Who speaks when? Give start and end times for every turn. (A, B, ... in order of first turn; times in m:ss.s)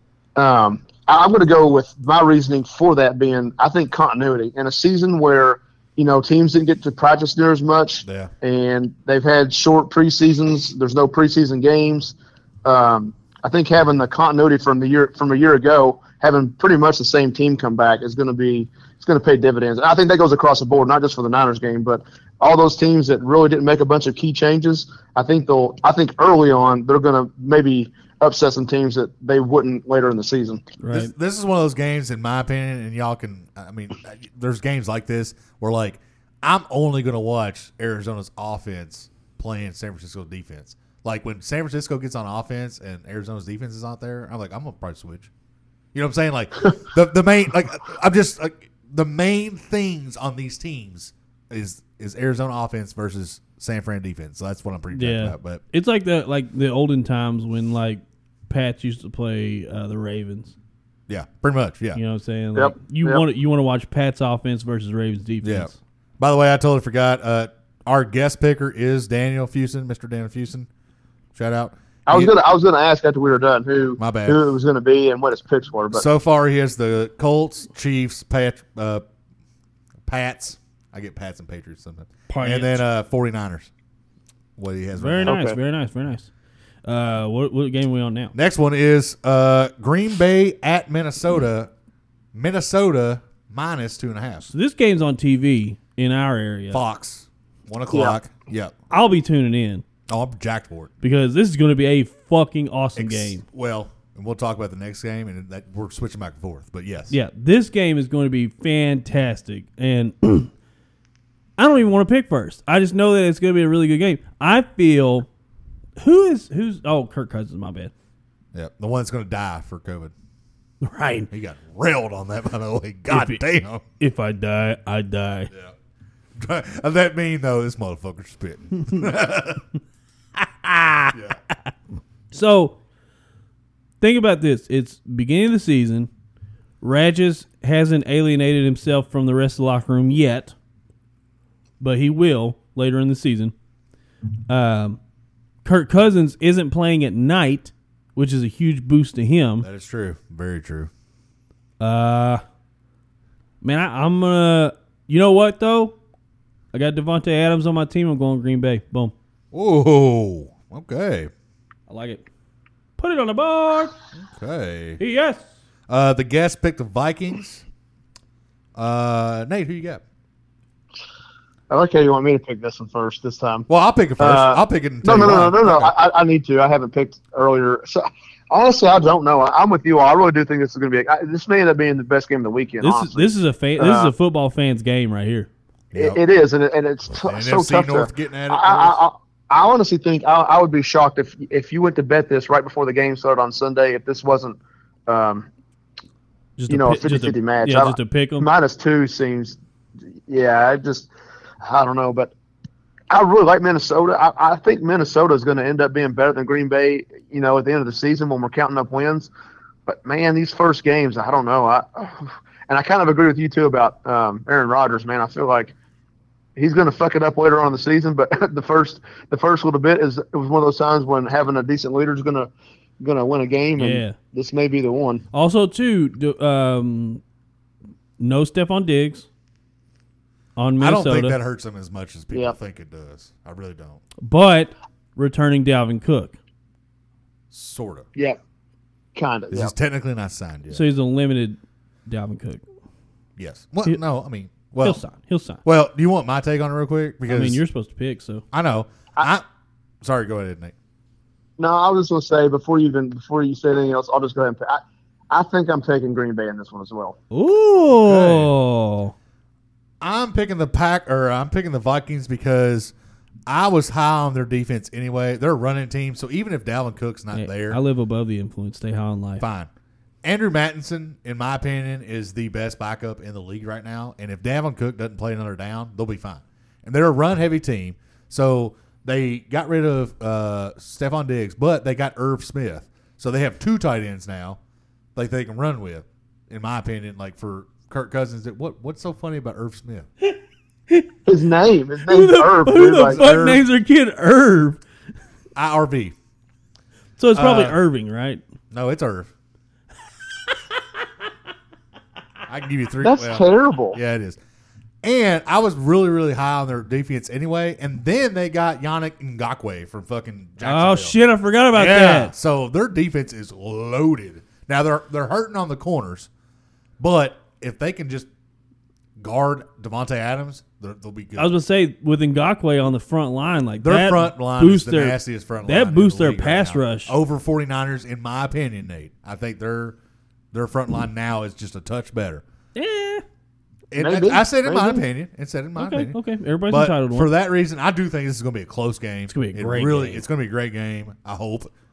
0:00.4-0:30.6 A
0:08.0-0:08.3 B
0:30.8-0:31.1 C
0:30.9-0:45.3 B
0:45.9-0:55.6 B
0:54.9-1:00.5 C
1:01.1-1:02.0 B
1:02.0-1:05.8 C
1:02.5-1:03.2 A
1:05.4-1:10.7 B
1:11.3-1:12.3 B
1:12.1-1:16.0 A
1:14.0-1:14.4 B
1:15.9-1:19.0 B
1:20.0-1:23.7 B
1:22.3-1:22.8 C
1:24.6-1:25.4 B
1:25.0-1:26.3 C
1:25.2-1:25.6 A
1:26.8-1:28.3 C
1:28.3-1:31.7 B
1:32.3-1:34.5 B
1:34.5-1:36.8 C
1:36.7-1:38.7 B
1:37.9-1:38.2 A
1:38.9-1:39.8 C
1:40.1-1:40.9 B
1:41.0-1:43.4 C
1:43.0-1:47.1 B
1:47.1-1:50.5 C
1:51.6-1:55.3 C
1:56.0-1:57.9 C
1:58.5-2:00.1 B
2:00.8-2:01.3 C
2:01.3-2:03.8 B
2:03.1-2:03.4 C
2:04.0-2:05.5 C
2:06.4-2:09.6 B
2:10.4-2:11.1 C
2:12.3-2:12.8 C
2:14.0-2:16.1 C
2:16.8-2:20.5 C
2:21.8-2:23.5 C
2:24.5-2:25.0 C
2:25.6-2:29.6 C
2:29.6-2:30.9 B
2:31.8-2:32.4 C
2:33.6-2:35.9 C
2:36.7-2:39.1 C
2:39.5-2:41.3 B
2:41.9-2:42.2 C
2:43.0-2:43.9 C
2:44.2-2:45.0 B
2:45.0-2:45.4 C
2:45.9-2:47.6 B
2:48.8-2:50.0 B
2:51.7-2:53.6 A
2:53.7-2:55.9 B
2:54.2-3:04.1 A
3:02.8-3:05.5 C
3:05.9-3:06.2 B
3:06.0-3:15.5 A
3:07.2-3:09.0 B
3:16.6-3:18.5 C
3:16.7-3:19.6 A
3:20.3-3:21.1 A
3:21.6-3:22.3 A
3:23.1-3:29.3 A
3:29.8-3:35.7 A
3:36.6-3:45.2 A
3:43.8-3:44.2 C
3:45.3-3:47.2 C
3:48.2-3:49.3 C
3:50.6-3:51.4 C
3:50.8-3:54.0 B
3:54.2-3:56.4 C
3:57.5-3:58.1 B
3:59.1-3:59.7 A
3:59.5-4:00.8 B
4:00.7-4:02.6 C
4:03.4-4:05.0 B
4:04.8-4:05.6 C
4:05.6-4:07.6 B
4:07.3-4:08.4 C
4:08.5-4:09.4 B
4:10.0-4:10.7 B
4:11.6-4:17.2 A
4:17.3-4:19.1 C
4:18.0-4:18.5 B
4:20.0-4:22.9 B
4:23.5-4:27.8 B
4:27.3-4:29.4 C
4:29.4-4:29.7 B
4:30.2-4:44.6 B
4:45.2-4:50.1 B
4:51.2-4:53.2 A
4:52.1-4:54.8 C
4:53.0-4:53.6 B
4:55.6-4:56.1 B
4:57.2-4:58.4 C
4:57.3-4:57.8 B
4:58.7-4:59.3 B
5:02.5-5:04.4 B
5:03.0-5:04.0 A
5:05.0-5:11.2 B
5:10.6-5:12.3 C
5:11.7-5:16.3 B
5:17.0-5:18.3 B
5:19.2-5:21.5 B
5:21.4-5:27.1 C
5:23.8-5:30.0 B
5:30.5-5:32.4 B
5:32.7-5:33.2 C
5:33.9-5:36.2 B
5:34.0-5:35.0 A
5:35.8-5:37.3 C
5:36.7-5:41.7 B
5:39.3-5:40.2 C